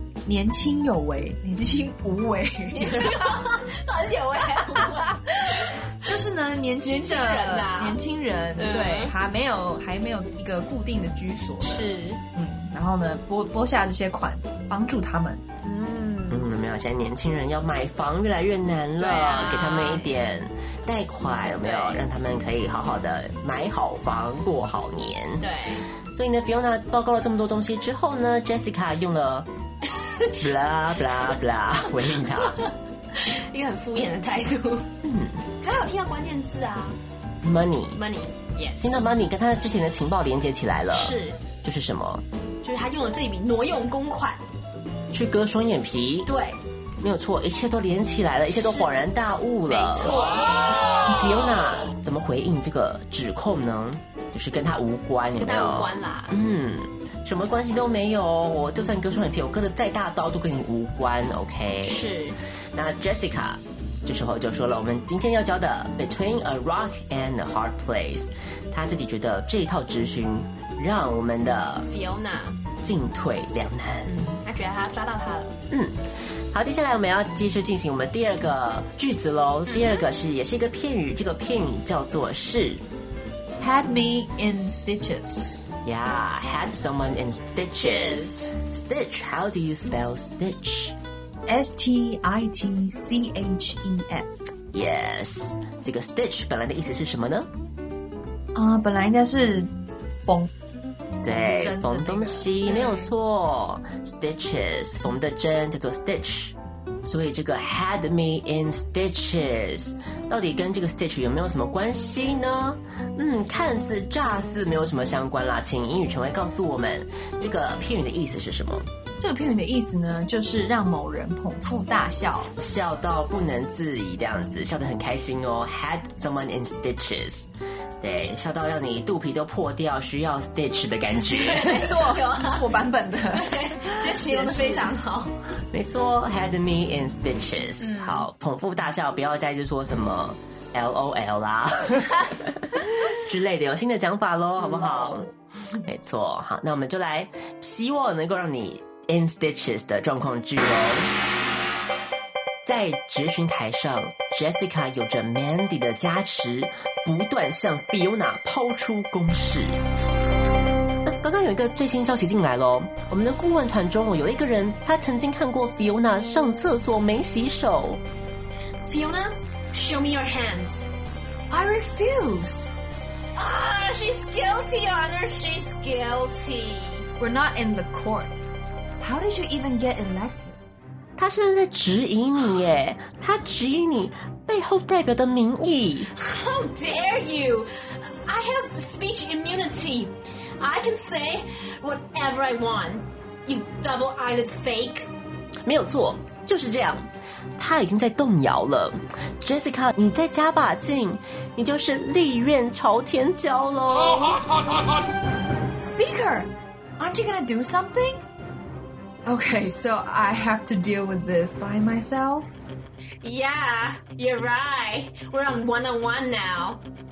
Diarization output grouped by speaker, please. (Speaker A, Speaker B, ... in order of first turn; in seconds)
Speaker A: 0.2-3.4, 6.0-15.4, 83.6-85.6, 91.5-94.6, 98.5-99.7, 100.2-100.5, 101.2-103.0, 119.2-122.5, 131.6-134.9, 171.5-172.7, 177.2-178.4, 179.0-180.6, 205.8-208.2, 209.2-212.5
Speaker B: 2.7-5.9, 6.8-8.0, 8.6-9.1, 11.6-12.2, 15.6-16.5, 19.0-20.1, 21.6-22.0, 25.4-25.9, 30.0-30.4, 32.4-34.9, 35.6-37.0, 37.9-39.0, 40.9-41.4, 42.6-44.4, 46.2-46.6, 48.5-49.0, 49.7-51.6, 55.4-56.4, 61.8-62.4, 71.9-72.6, 74.0-75.6, 79.7-80.0, 87.8-88.4, 131.3-132.7, 133.3-135.3, 137.8-138.3, 144.6-145.3, 168.9-170.8, 173.3-177.1, 186.1-195.1, 213.2-216.8
Speaker C: 16.3-25.4, 26.1-29.5, 30.4-32.6, 35.0-35.4, 37.4-38.0, 38.8-42.2, 45.1-46.3, 47.0-62.1, 62.7-71.9, 72.8-74.1, 75.7-76.0, 76.5-82.8, 85.8-91.0, 94.7-97.5, 101.2-118.9, 122.6-127.5, 128.0-131.9, 135.7-145.3, 145.8-151.1, 152.6-159.8, 161.0-168.0, 181.2-186.1, 195.7-204.8